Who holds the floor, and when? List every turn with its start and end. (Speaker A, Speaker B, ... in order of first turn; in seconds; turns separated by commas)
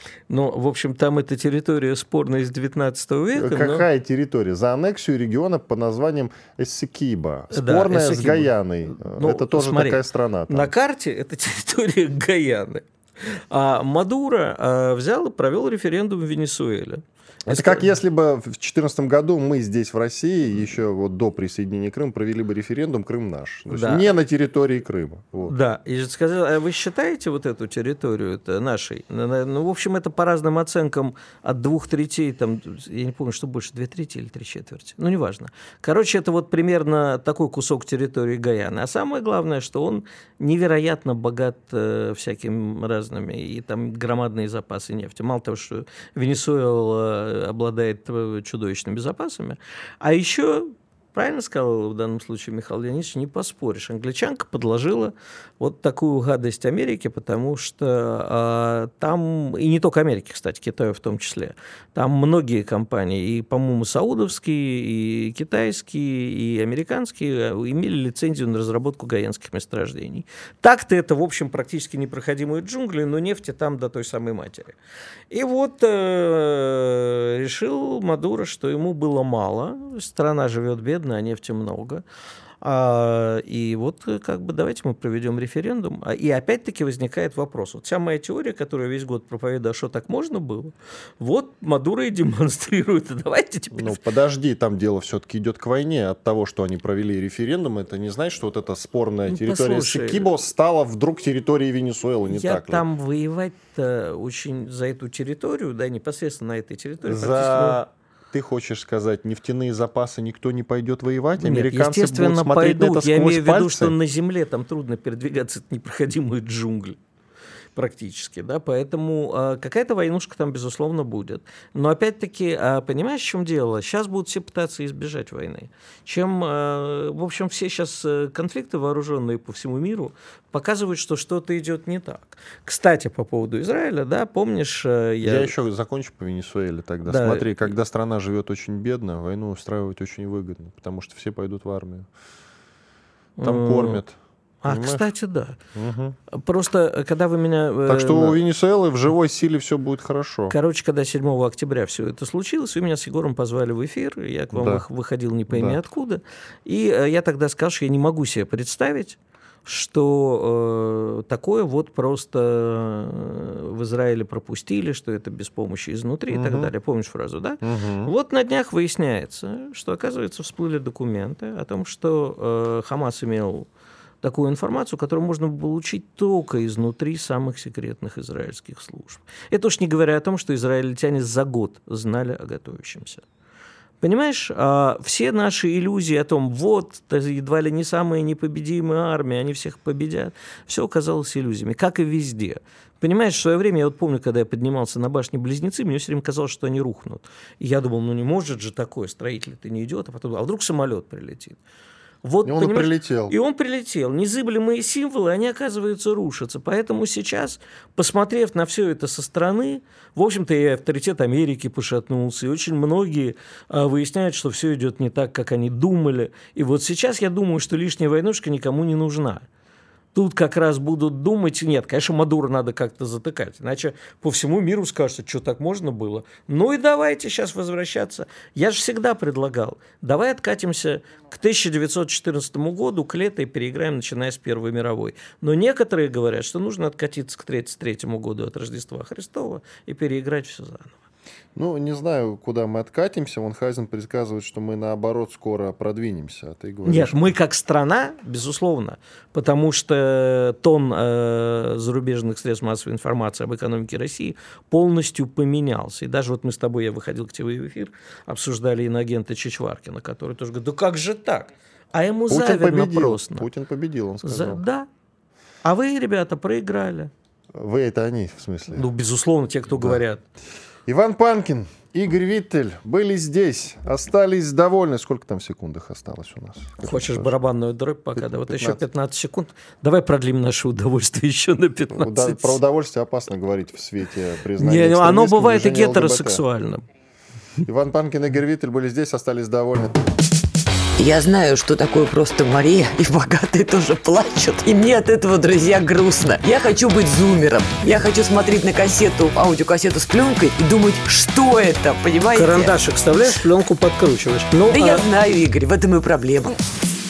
Speaker A: 0.3-3.9, Speaker B: 3.4-10.7, Speaker A: 7.5-17.9, Speaker B: 17.5-25.5, Speaker A: 23.7-24.1, Speaker A: 25.5-74.7, Speaker A: 75.3-82.0, Speaker A: 82.6-94.0, Speaker B: 93.7-102.8, Speaker A: 99.3-100.3, Speaker A: 102.3-107.8, Speaker B: 107.0-113.9, Speaker A: 111.4-117.0, Speaker A: 117.7-135.5, Speaker B: 135.2-142.1, Speaker A: 137.0-137.5, Speaker A: 143.4-144.0, Speaker B: 143.4-144.1, Speaker A: 144.6-145.6, Speaker B: 144.7-145.1, Speaker B: 145.7-146.2, Speaker A: 146.3-148.4, Speaker B: 147.9-150.6, Speaker A: 150.5-173.7, Speaker B: 154.5-154.8, Speaker B: 155.5-155.8, Speaker B: 166.3-166.7, Speaker B: 167.6-168.1, Speaker A: 174.2-183.2, Speaker A: 184.0-201.6, Speaker A: 202.2-219.4, Speaker B: 202.4-203.3, Speaker A: 220.1-241.0, Speaker B: 241.5-247.3, Speaker A: 246.8-263.5, Speaker B: 262.3-264.6, Speaker A: 264.2-264.9, Speaker A: 265.6-267.1, Speaker B: 267.5-268.9, Speaker A: 268.7-270.2, Speaker B: 269.7-270.0, Speaker B: 270.9-277.3, Speaker A: 276.8-282.6, Speaker B: 278.1-278.8, Speaker B: 281.9-286.4, Speaker A: 284.6-286.8, Speaker B: 287.6-290.0, Speaker C: 291.0-302.8, Speaker A: 302.3-305.1, Speaker C: 304.7-306.6